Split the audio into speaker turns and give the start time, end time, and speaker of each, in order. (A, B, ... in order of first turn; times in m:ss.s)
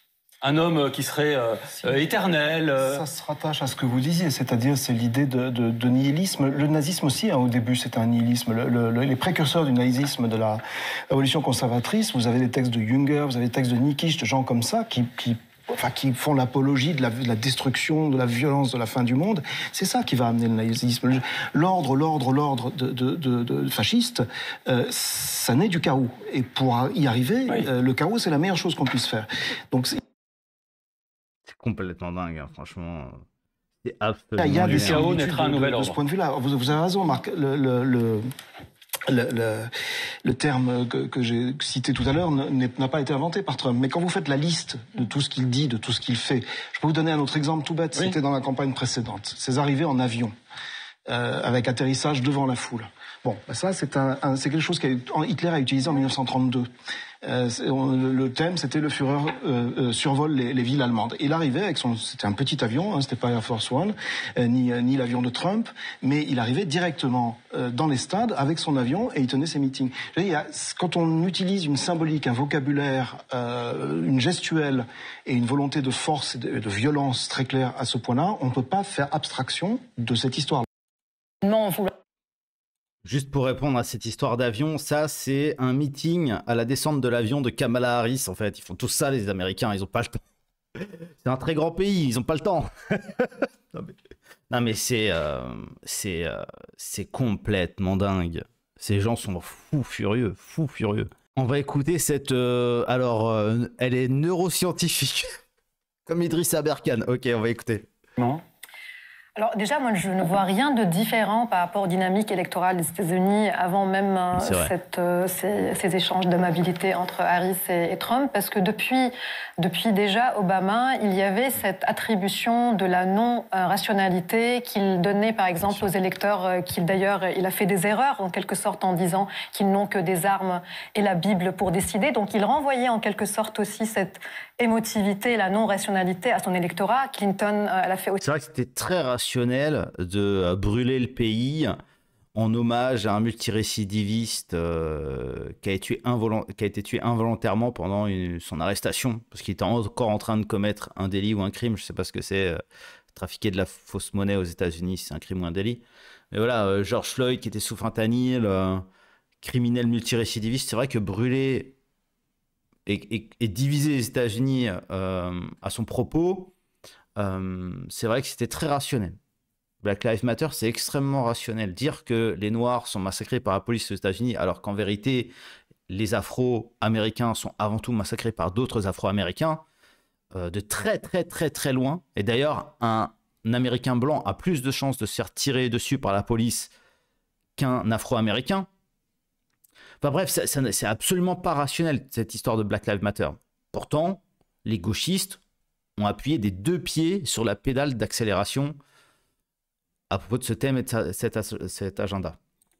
0:00.4-0:03.0 A
0:02.8-0:30.0 B
0:31.5-0:33.2 C
0:33.8-0:35.0 C
0:34.4-0:38.2 B
0:34.6-0:36.0 A
0:39.1-0:39.7 B
0:40.2-0:50.3 B
0:51.1-0:56.7 B
0:57.2-1:20.6 B
1:21.4-1:21.9 A
1:23.0-1:30.2 C
1:30.8-1:33.9 C
1:34.5-1:45.3 C
1:46.0-1:47.9 C
1:49.4-2:18.2 D
1:54.4-1:54.7 C
2:18.2-2:21.8 C
2:22.3-2:32.6 C
2:33.1-2:38.8 C
2:39.4-2:41.8 C
2:42.8-2:46.5 C
2:47.2-2:49.2 C
2:49.8-2:55.3 C
2:55.9-2:59.6 C
3:00.3-3:06.7 C
3:07.6-3:08.7 C
3:10.0-3:15.4 C
3:16.0-3:18.8 C
3:20.1-3:22.4 C